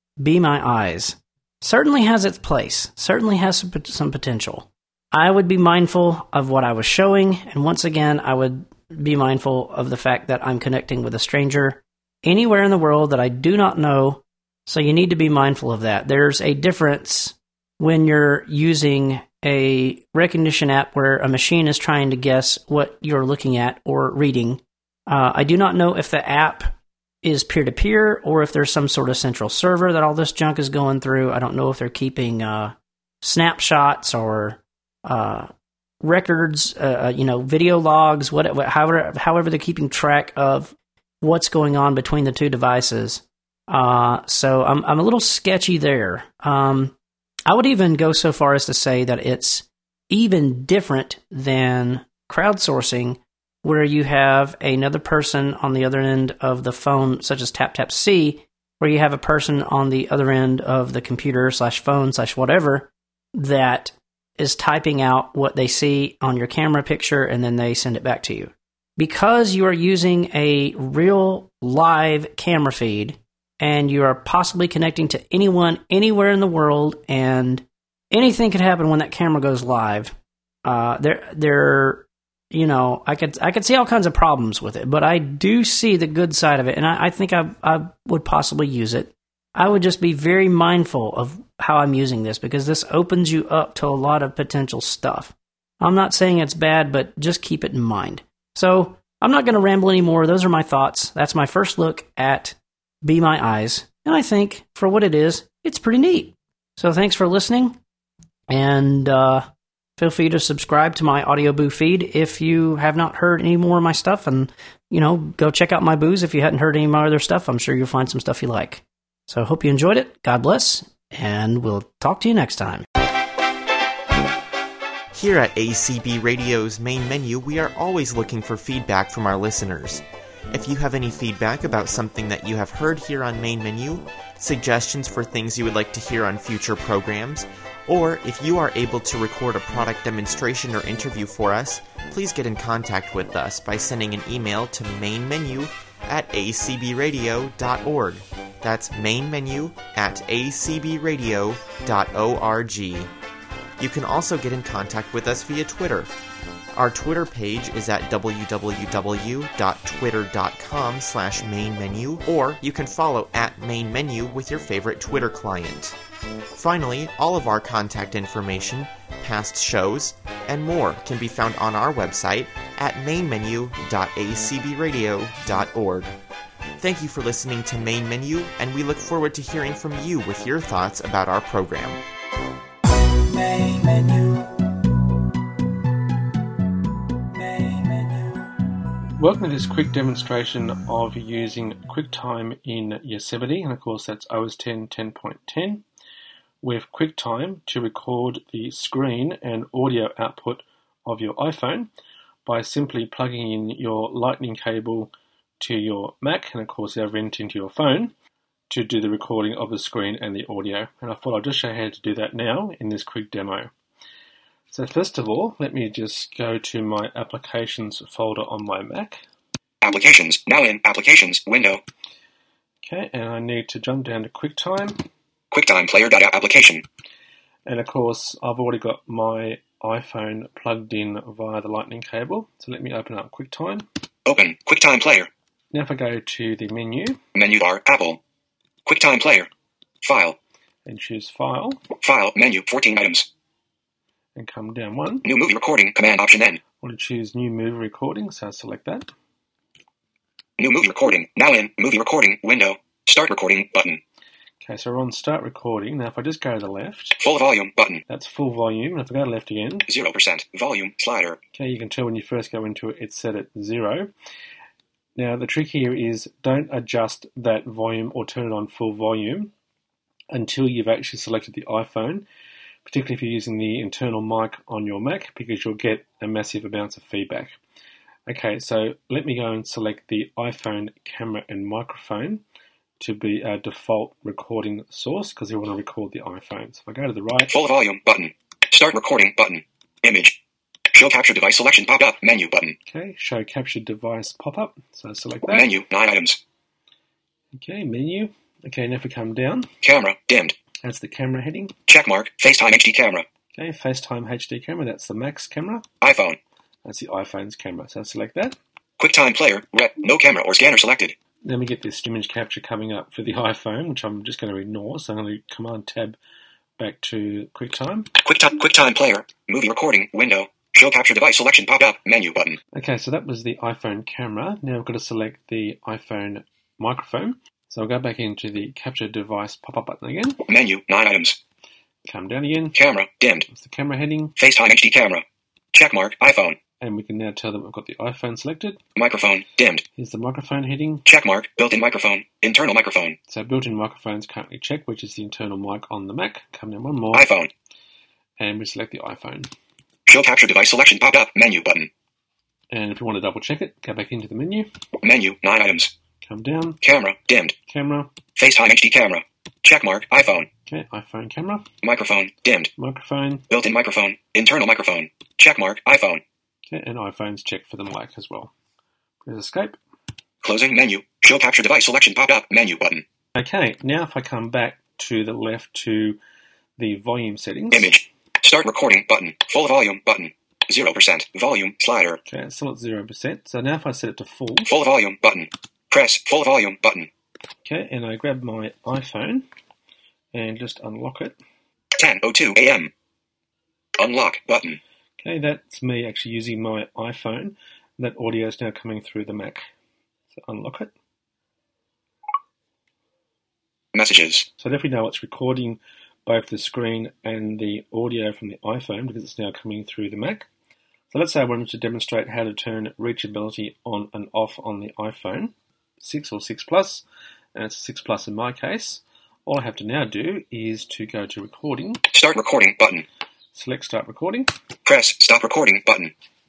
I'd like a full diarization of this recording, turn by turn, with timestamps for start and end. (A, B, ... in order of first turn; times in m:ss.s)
0:00.2-0:35.5 A
0:36.0-0:46.9 A
0:47.5-1:47.8 A
1:48.5-1:49.4 A
1:50.0-2:02.8 A
2:05.1-2:33.1 B
2:33.8-2:36.1 B
2:36.7-2:45.9 B
2:46.5-2:56.1 B
2:56.8-3:02.0 B
3:09.2-3:15.8 C
3:16.6-3:21.9 C
3:22.4-3:28.1 C
3:28.7-3:33.7 C
3:34.7-3:39.2 C
3:39.8-3:41.8 D
3:42.8-3:45.0 C
3:45.5-3:46.8 D
3:47.6-3:53.8 C
3:54.2-3:55.3 D
3:55.7-3:57.2 C
3:57.3-3:58.2 D
3:58.8-3:59.5 D
4:00.0-4:00.4 D
4:00.8-4:01.8 C
4:02.0-4:03.3 D
4:04.3-4:05.3 C
4:05.2-4:06.6 D
4:06.8-4:09.1 C
4:10.6-4:14.0 D
4:14.6-4:17.2 C
4:17.2-4:18.0 D
4:18.1-4:19.9 C
4:19.8-4:21.4 D
4:21.5-4:24.1 C
4:25.2-4:29.5 C
4:30.3-4:32.2 C
4:32.8-4:37.6 C
4:38.3-4:42.4 C
4:43.0-4:47.5 C
4:47.4-4:50.4 D
4:50.9-4:52.8 D
4:52.8-4:55.7 C
4:55.4-4:56.4 D
4:57.5-4:59.7 C
4:59.8-5:00.6 D
5:00.8-5:01.7 C
5:01.9-5:03.2 D
5:03.5-5:05.8 C
5:06.0-5:06.4 D
5:06.8-5:08.6 C
5:09.0-5:11.1 D
5:11.4-5:16.2 C
5:16.8-5:18.1 C
5:18.2-5:22.6 D
5:22.7-5:30.4 C
5:30.4-5:31.4 D
5:32.0-5:32.8 C
5:32.7-5:33.5 D
5:33.4-5:34.3 C
5:34.4-5:36.6 D
5:36.8-5:38.8 C
5:38.9-5:39.8 D
5:39.9-5:41.0 C
5:41.0-5:43.2 D
5:43.3-5:47.3 C
5:47.1-5:47.5 D
5:48.4-5:49.5 C
5:50.1-5:51.9 D
5:52.7-5:54.7 C
5:55.0-5:55.9 D
5:56.2-5:56.8 C
5:56.8-5:57.6 D
5:57.6-5:58.1 C
5:58.3-6:00.5 D
6:00.7-6:01.7 C
6:01.8-6:02.7 D
6:02.8-6:03.4 C
6:03.5-6:06.2 D
6:06.7-6:08.5 C
6:09.2-6:09.8 C
6:10.4-6:13.0 D
6:13.3-6:16.2 C
6:16.8-6:17.9 C
6:17.7-6:22.2 D
6:22.2-6:24.7 C
6:24.6-6:27.1 D
6:27.6-6:29.4 C
6:30.3-6:31.4 C
6:32.0-6:32.9 D
6:34.0-6:34.8 D
6:35.2-6:39.6 C
6:40.3-6:40.9 C
6:43.9-6:44.5 D
6:44.6-6:50.5 C
6:51.1-7:02.0 C
7:02.1-7:03.0 D
7:03.5-7:04.5 C
7:04.8-7:06.1 D